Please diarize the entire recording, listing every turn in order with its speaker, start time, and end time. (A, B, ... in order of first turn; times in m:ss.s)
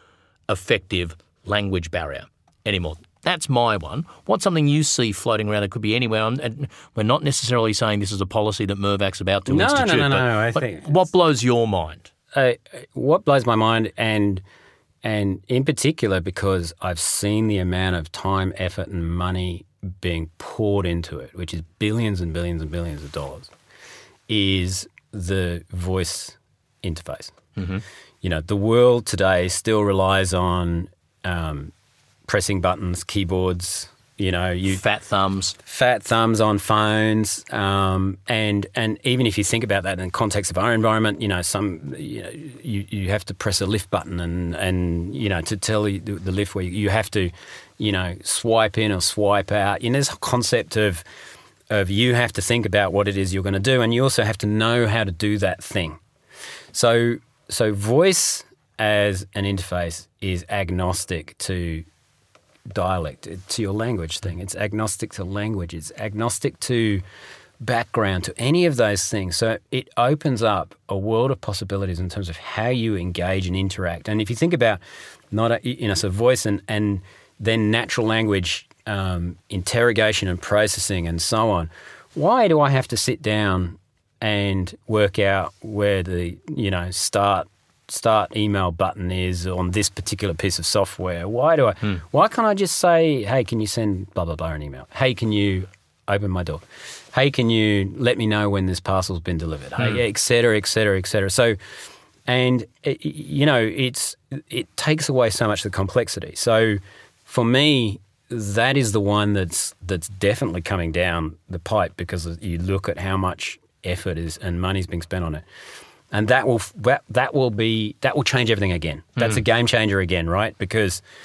0:00.5-0:12.1 A
0:09.5-0:11.0 B
0:12.3-0:14.4 B
0:15.0-0:23.5 B
0:24.3-0:27.4 B
0:27.6-0:27.8 A
0:28.2-0:31.7 B
0:32.3-0:34.8 B
0:34.7-0:35.6 A
0:35.7-0:51.0 B
0:51.7-0:56.0 B
0:56.7-1:01.9 B
1:02.7-1:07.0 B
1:07.6-1:41.6 B
1:42.3-1:55.4 B
1:56.1-2:01.0 B